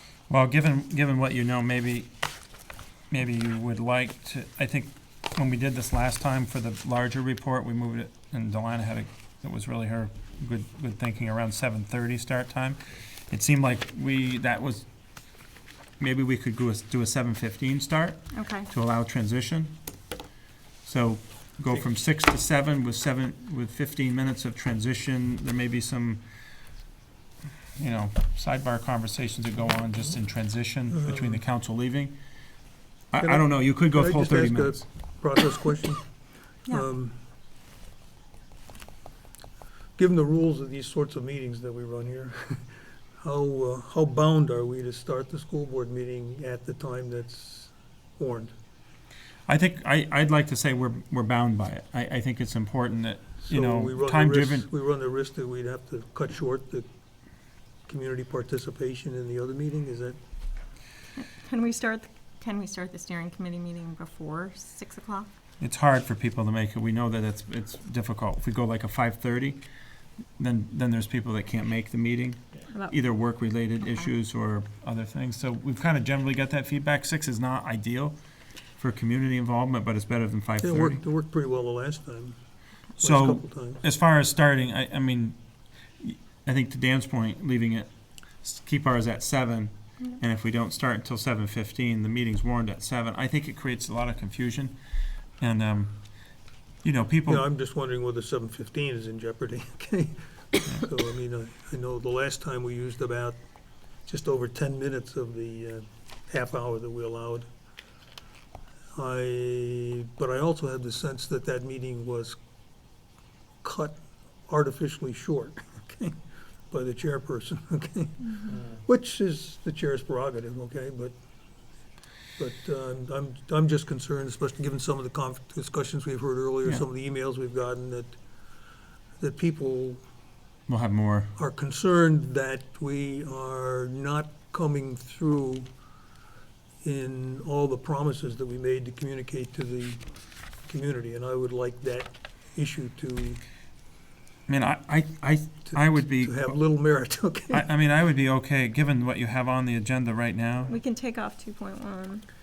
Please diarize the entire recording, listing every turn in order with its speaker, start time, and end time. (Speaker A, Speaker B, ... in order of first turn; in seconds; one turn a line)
Speaker A: 0.3-2.1
Speaker A: 3.1-14.8
Speaker A: 16.0-19.7
Speaker B: 18.3-18.7
Speaker A: 20.8-26.2
Speaker A: 27.8-32.1
Speaker C: 31.0-31.3
Speaker A: 33.1-34.8
Speaker C: 33.2-36.0
Speaker C: 36.7-37.2
Speaker C: 40.0-42.7
Speaker C: 43.2-48.5
Speaker A: 49.5-54.7
Speaker C: 53.5-56.9
Speaker C: 57.9-60.2
Speaker B: 61.2-65.3
Speaker A: 65.6-69.6
Speaker A: 70.4-78.2
Speaker B: 72.7-73.0
Speaker B: 73.8-74.1
Speaker A: 78.8-81.0
Speaker C: 80.6-82.4
Speaker C: 83.0-83.8
Speaker A: 83.0-85.4
Speaker A: 86.0-87.9
Speaker A: 88.4-94.8
Speaker A: 95.4-96.0
Speaker A: 96.8-97.5
Speaker C: 97.3-103.4
Speaker C: 104.1-107.5
Speaker C: 109.0-112.4
Speaker C: 113.6-114.0
Speaker C: 114.5-116.1
Speaker C: 116.7-121.1
Speaker C: 122.4-128.2
Speaker C: 129.2-130.0
Speaker A: 130.7-131.3
Speaker C: 131.4-135.7
Speaker C: 136.8-140.0
Speaker C: 140.7-143.4
Speaker A: 144.5-146.6
Speaker C: 145.7-147.7
Speaker A: 147.5-150.7
Speaker B: 150.7-152.2